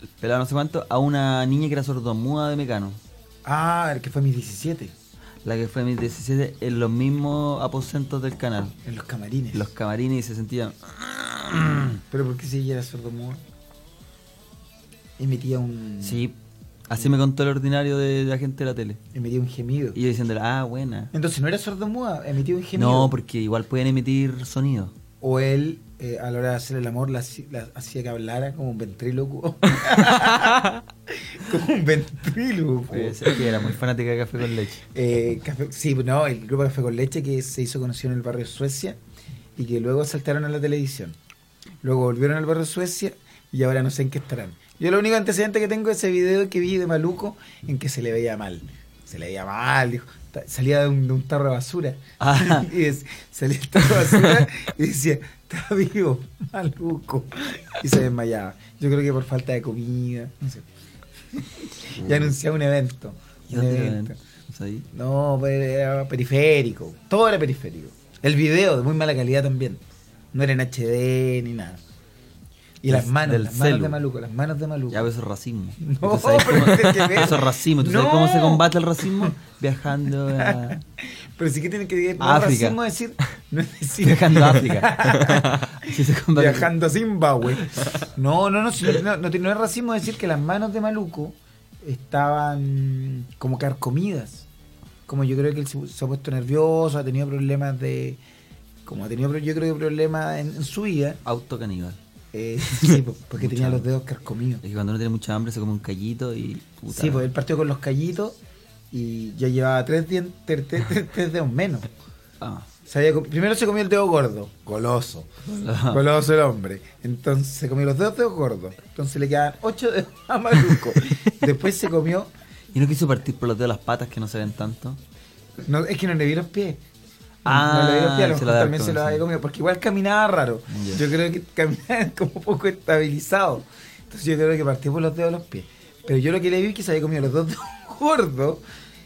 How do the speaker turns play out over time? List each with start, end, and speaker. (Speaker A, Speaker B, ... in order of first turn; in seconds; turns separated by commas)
Speaker A: 0.2-3.0, Speaker B: 3.4-4.9, Speaker A: 5.4-8.8, Speaker B: 8.8-9.7, Speaker A: 9.5-12.0, Speaker B: 12.1-13.4, Speaker B: 15.2-16.2, Speaker A: 16.0-16.4, Speaker A: 16.9-19.0, Speaker B: 19.1-20.0, Speaker A: 19.9-21.1, Speaker B: 21.1-23.1, Speaker A: 22.8-24.9, Speaker B: 25.2-33.4, Speaker A: 32.9-34.8, Speaker B: 34.9-39.0, Speaker B: 39.5-41.2, Speaker B: 41.8-60.6, Speaker A: 52.2-52.7, Speaker B: 61.4-64.2, Speaker A: 62.0-62.3, Speaker A: 63.5-64.9, Speaker B: 64.9-69.8, Speaker B: 70.3-71.8, Speaker B: 72.8-75.1, Speaker A: 72.9-74.0, Speaker A: 74.9-80.8, Speaker B: 75.8-78.6, Speaker B: 80.3-85.5, Speaker A: 82.2-82.8, Speaker A: 84.0-86.7, Speaker B: 86.3-94.5, Speaker B: 95.1-98.2, Speaker B: 98.8-101.2, Speaker A: 101.2-102.0, Speaker B: 102.3-104.6, Speaker A: 103.4-103.8, Speaker A: 104.6-107.3, Speaker B: 106.9-108.4, Speaker B: 108.9-111.9, Speaker A: 112.4-112.7, Speaker B: 112.8-115.3, Speaker A: 115.4-116.0, Speaker B: 115.9-122.3, Speaker A: 122.7-125.0, Speaker B: 125.6-126.8, Speaker A: 127.4-129.2, Speaker B: 127.4-138.6, Speaker A: 130.7-131.0